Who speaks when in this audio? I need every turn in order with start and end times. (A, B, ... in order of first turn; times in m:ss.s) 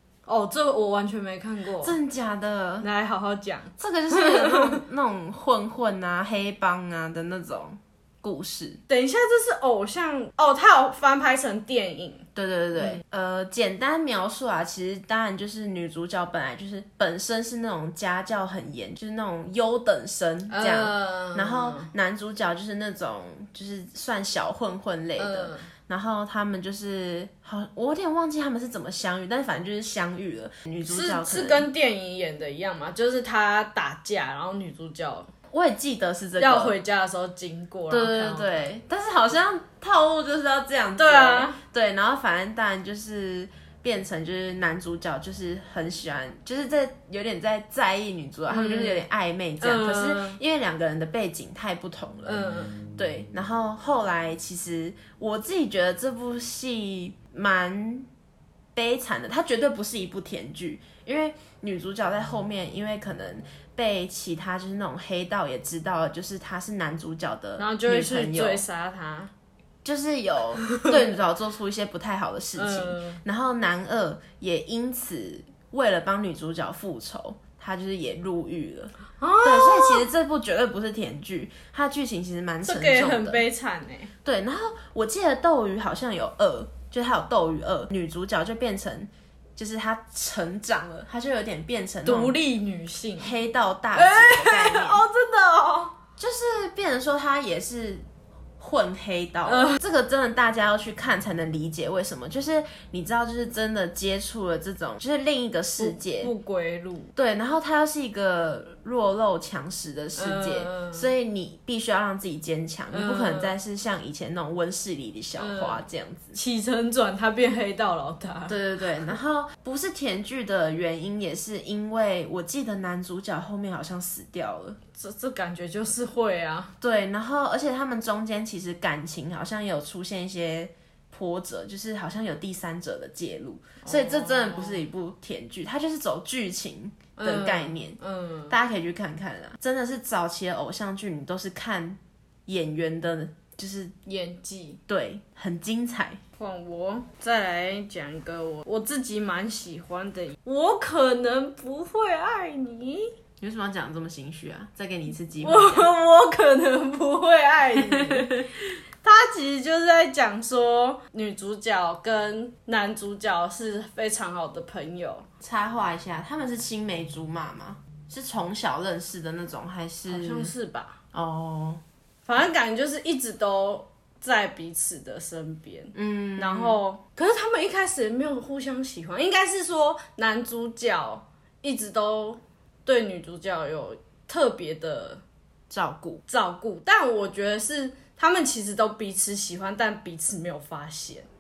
0:00.3-0:02.0 A
0:01.8-0:02.9 B
0:02.8-0:04.8 A
0:03.8-0:08.8 B
0:08.9-0:12.2 A
0:12.4-0:31.7 B
0:12.8-0:13.0 A
0:20.5-0:21.9 A
0:25.2-0:25.7 A
0:30.9-0:35.3 A
0:35.5-0:36.8 B
0:36.4-0:38.5 A
0:37.9-0:58.1 B
0:41.0-0:41.6 A
0:48.5-0:49.0 A
0:49.6-0:50.4 A
0:52.2-0:52.8 A
0:58.8-1:08.6 B
1:07.6-1:09.3 A
1:09.8-1:23.4 B
1:10.7-1:11.0 A
1:12.6-1:13.2 A
1:19.2-1:20.0 A
1:22.6-1:24.1 A
1:24.2-1:32.4 B
1:32.0-1:33.3 A
1:33.2-1:35.0 B
1:33.9-1:36.0 A
1:36.2-1:38.0 B
1:38.6-1:46.3 B
1:39.5-1:39.8 A
1:45.8-1:47.1 A
1:47.2-1:56.4 B
1:50.2-1:51.1 A
1:52.9-1:53.5 A
1:55.4-1:55.8 A
1:56.3-1:58.6 A
1:58.5-2:04.8 B
2:05.0-2:06.7 A
2:06.8-2:18.0 B
2:13.8-2:14.8 A
2:17.2-2:18.6 A
2:18.5-2:23.9 B
2:24.1-2:24.8 A
2:24.9-2:26.2 B
2:26.4-2:33.1 A
2:33.4-2:35.9 B
2:35.4-2:38.4 A
2:37.8-2:38.5 B
2:39.0-2:45.3 A
2:45.4-2:50.5 B
2:50.1-2:51.0 A
2:51.1-2:51.8 B
2:52.3-3:05.2 A
2:55.9-2:56.8 B
3:05.7-3:06.2 B
3:06.3-3:11.3 A